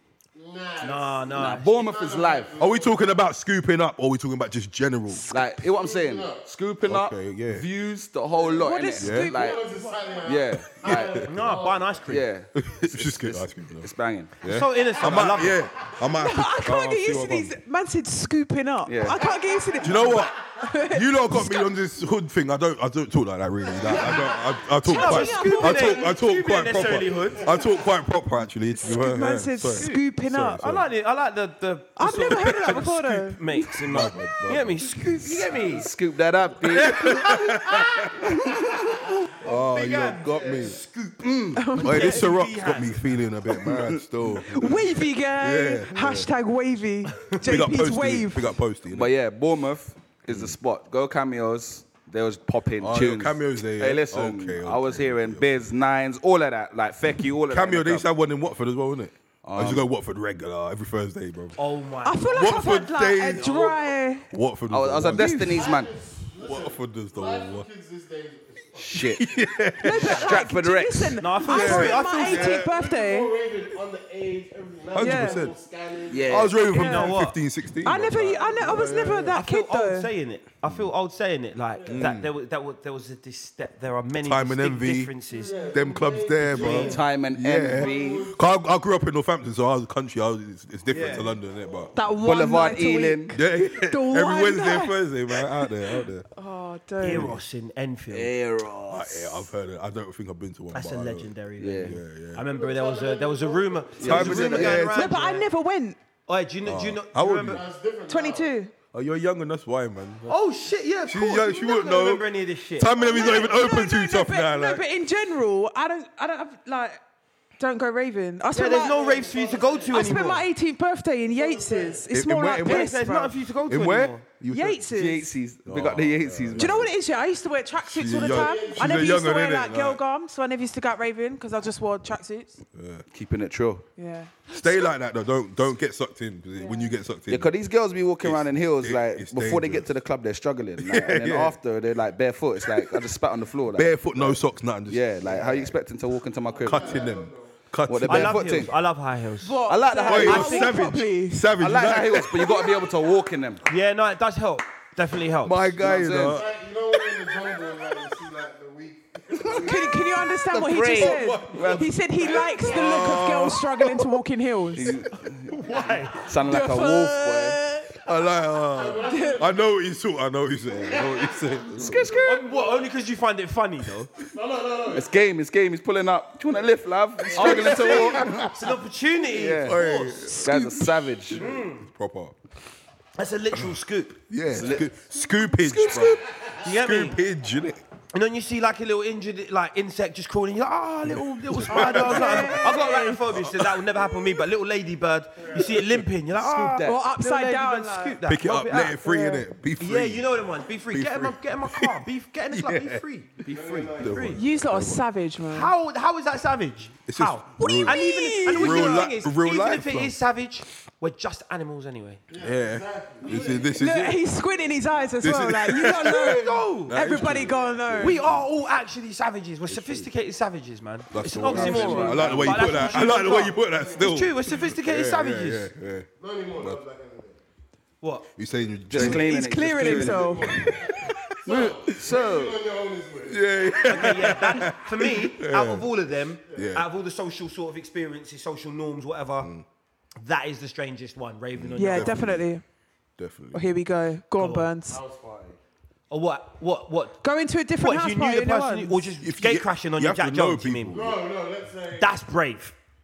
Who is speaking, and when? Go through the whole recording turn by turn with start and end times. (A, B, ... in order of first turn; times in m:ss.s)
0:00.4-0:03.2 A
0:00.8-0:01.7 B
0:01.4-0:02.6 C
0:02.6-0:05.4 D
0:05.3-0:09.6 C
0:05.6-0:06.4 A
0:06.8-0:07.7 D
0:08.5-0:10.2 E
0:09.0-0:09.4 D
0:09.3-0:12.0 A
0:10.2-0:11.3 C
0:10.8-0:11.2 D
0:11.2-0:12.3 B
0:12.1-0:14.4 C
0:12.6-0:17.6 D
0:14.4-0:15.6 B
0:16.2-0:21.7 E
0:18.8-0:19.2 C
0:19.3-0:20.1 A
0:19.8-0:30.8 D
0:23.8-0:24.4 A
0:24.8-0:26.1 E
0:24.8-0:27.5 B
0:28.8-0:30.6 E
0:29.7-0:30.0 B
0:30.6-0:35.9 B
0:32.0-0:33.4 E
0:32.3-0:35.1 D
0:35.2-0:37.3 C
0:36.7-0:38.3 D
0:39.4-0:40.8 D
0:39.4-0:43.2 B
0:40.4-0:40.7 A
0:41.2-0:41.6 C
0:41.6-0:42.3 E
0:41.8-0:46.3 D
0:43.7-0:44.0 C
0:44.4-0:48.5 E
0:47.4-0:49.1 D
0:48.9-0:58.1 C
0:50.3-0:50.6 D
0:52.8-0:55.5 D
0:57.5-1:01.6 D
0:59.4-0:59.8 C
1:01.6-1:02.6 B
1:02.0-1:04.3 E
1:02.3-1:05.5 D
1:04.7-1:05.9 C
1:05.1-1:05.6 E
1:05.5-1:09.1 A
1:06.4-1:07.7 D
1:08.8-1:09.2 C
1:09.0-1:10.3 D
1:09.8-1:13.3 E
1:10.2-1:11.2 C
1:11.2-1:12.6 B
1:11.4-1:12.6 D
1:11.7-1:16.5 A
1:14.9-1:15.5 D
1:15.0-1:15.4 E
1:16.1-1:16.6 C
1:16.2-1:19.3 D
1:16.6-1:17.2 E
1:16.6-1:17.4 B
1:17.8-1:20.1 E
1:18.7-1:18.9 A
1:19.3-1:25.8 B
1:21.8-1:22.1 A
1:21.9-1:22.3 D
1:24.2-1:25.1 D
1:25.3-1:28.5 A
1:25.7-1:32.0 D
1:26.6-1:26.9 B
1:26.6-1:28.3 C
1:30.9-1:31.3 B
1:32.0-1:35.0 E
1:32.2-1:33.4 C
1:33.3-1:36.3 D
1:36.3-1:37.3 E
1:37.0-1:38.3 B
1:37.1-1:37.4 D
1:38.1-1:39.3 C
1:38.9-1:42.4 D
1:40.7-1:45.5 B
1:41.6-1:42.0 C
1:42.4-1:44.7 A
1:44.0-1:44.8 C
1:44.0-1:45.2 D
1:44.9-1:46.0 E
1:46.3-1:47.6 B
1:46.6-1:47.7 D
1:47.5-1:48.5 A
1:48.1-1:48.7 E
1:48.9-1:50.4 D
1:50.3-1:53.6 B
1:51.1-1:54.8 D
1:52.9-1:57.0 E
1:57.6-1:59.0 E
1:58.5-2:00.4 B
1:58.6-2:00.2 A
1:59.9-2:03.4 E
2:01.3-2:02.0 A
2:02.1-2:03.0 D
2:02.6-2:04.2 B
2:03.7-2:04.9 D
2:04.5-2:05.3 E
2:04.9-2:06.9 C
2:05.7-2:06.9 D
2:06.6-2:12.6 E
2:07.9-2:10.0 D
2:08.1-2:09.3 A
2:12.8-2:13.0 D
2:13.1-2:13.8 C
2:14.0-2:14.7 E
2:14.5-2:17.5 D
2:17.3-2:27.0 C
2:18.2-2:19.9 D
2:20.8-2:21.6 D
2:22.6-2:23.1 D
2:23.8-2:25.7 D
2:26.5-2:27.5 A
2:26.6-2:28.7 D
2:27.9-2:28.8 C
2:28.1-2:29.6 B
2:29.4-2:31.4 E
2:29.7-2:30.8 C
2:30.1-2:32.6 D
2:30.2-2:30.5 B
2:31.6-2:33.6 C
2:33.7-2:35.8 B
2:35.4-2:36.5 D
2:35.8-2:36.4 C
2:36.1-2:40.3 A
2:39.6-2:45.0 E
2:40.5-2:42.0 C
2:41.0-2:41.8 D
2:42.2-2:43.1 A
2:42.6-2:44.1 D
2:44.8-2:45.6 C
2:45.5-2:46.2 B
2:46.2-2:47.6 C
2:46.5-2:48.0 E
2:48.0-2:52.2 D
2:48.7-2:49.7 A
2:49.0-2:49.4 E
2:50.7-2:52.9 A
2:51.8-2:52.2 C
2:52.2-2:54.1 B
2:54.3-2:55.3 A
2:54.9-2:58.5 C
2:57.3-2:58.0 A
2:57.4-2:58.5 D
2:57.4-3:00.2 B
2:59.3-2:59.9 C
2:59.6-3:00.8 D
3:00.4-3:01.4 C
3:00.5-3:00.9 E
3:01.3-3:01.9 B
3:01.3-3:02.4 D
3:03.2-3:04.2 B
3:04.3-3:07.8 D
3:04.5-3:04.9 C
3:05.6-3:06.2 C
3:06.6-3:07.2 B
3:08.1-3:19.0 B
3:11.0-3:14.0 D
3:11.7-3:13.2 E
3:15.4-3:15.8 A
3:16.4-3:17.0 C
3:16.8-3:18.2 E
3:18.3-3:23.0 D
3:18.8-3:19.4 E
3:19.8-3:24.4 B
3:23.5-3:23.9 C
3:23.5-3:24.4 A
3:24.0-3:25.0 D
3:24.4-3:25.7 E
3:25.5-3:32.2 B
3:27.1-3:30.2 D
3:27.6-3:29.1 E
3:32.3-3:35.2 A
3:32.4-3:34.3 D
3:33.7-3:38.2 E
3:35.2-3:38.4 D
3:36.0-3:37.0 B
3:38.0-3:45.7 B
3:39.7-3:40.1 D
3:41.1-3:46.8 D
3:41.6-3:42.5 C
3:41.6-3:44.3 A
3:46.2-3:47.4 A
3:48.0-3:48.3 B
3:48.4-3:51.2 D
3:48.9-3:50.5 C
3:49.0-3:50.9 E
3:49.9-3:53.4 A
3:51.5-3:52.6 C
3:53.3-3:55.9 D
3:53.9-3:59.5 B
3:56.5-3:56.9 D
3:59.4-3:59.6 D
4:00.2-4:02.3 B
4:01.5-4:02.5 D
4:01.8-4:02.6 E
4:03.2-4:03.7 D
4:03.5-4:05.0 E
4:04.4-4:04.7 B
4:04.9-4:05.6 A
4:06.1-4:07.2 B
4:07.2-4:09.1 E
4:07.8-4:11.1 B
4:09.2-4:11.2 D
4:10.9-4:12.1 A
4:11.9-4:12.8 B